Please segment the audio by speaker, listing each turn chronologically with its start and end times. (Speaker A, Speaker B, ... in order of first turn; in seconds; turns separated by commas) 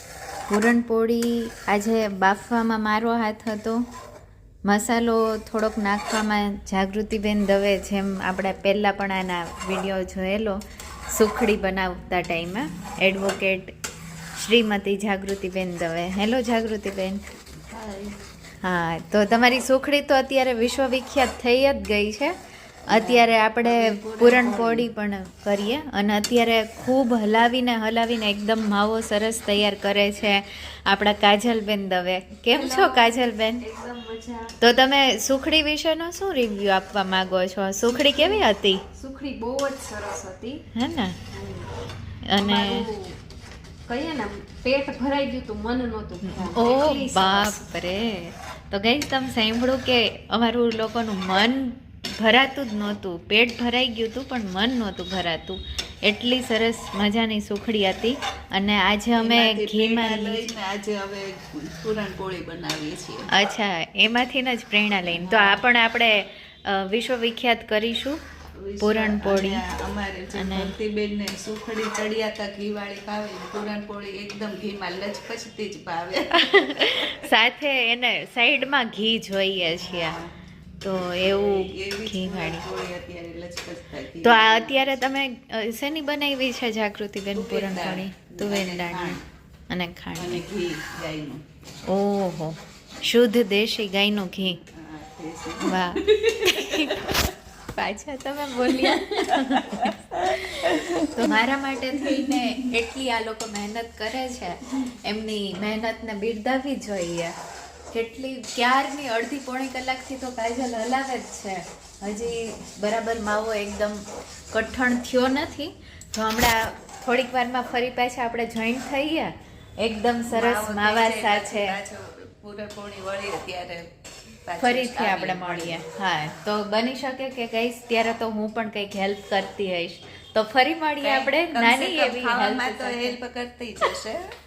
Speaker A: 0.5-3.9, Speaker A: 4.7-10.6, Speaker A: 11.1-13.7, Speaker A: 14.4-17.2, Speaker B: 17.7-18.2, Speaker A: 18.6-22.3, Speaker A: 22.9-33.6, Speaker B: 22.9-24.9, Speaker C: 32.5-34.5, Speaker A: 34.6-38.8, Speaker C: 37.9-40.6, Speaker A: 40.7-41.2, Speaker C: 41.3-41.7, Speaker A: 42.3-42.9, Speaker C: 42.4-43.2, Speaker C: 43.9-47.6, Speaker A: 46.2-60.5, Speaker B: 59.2-63.3, Speaker A: 63.3-68.2, Speaker B: 65.1-65.7, Speaker B: 68.6-77.3, Speaker A: 68.8-69.6, Speaker A: 70.3-70.8, Speaker A: 76.4-80.2, Speaker B: 79.8-80.3, Speaker A: 80.8-82.7, Speaker B: 80.9-85.0, Speaker A: 84.2-89.2, Speaker B: 87.3-89.2, Speaker A: 89.7-90.4, Speaker B: 90.2-91.4, Speaker A: 91.9-94.6, Speaker B: 94.5-97.0, Speaker A: 95.6-97.1, Speaker A: 97.8-107.3, Speaker B: 98.7-101.4, Speaker B: 102.0-102.6, Speaker A: 107.9-114.0, Speaker A: 114.5-121.8, Speaker B: 120.3-123.9, Speaker B: 124.5-125.8, Speaker A: 124.6-133.2, Speaker B: 131.0-134.4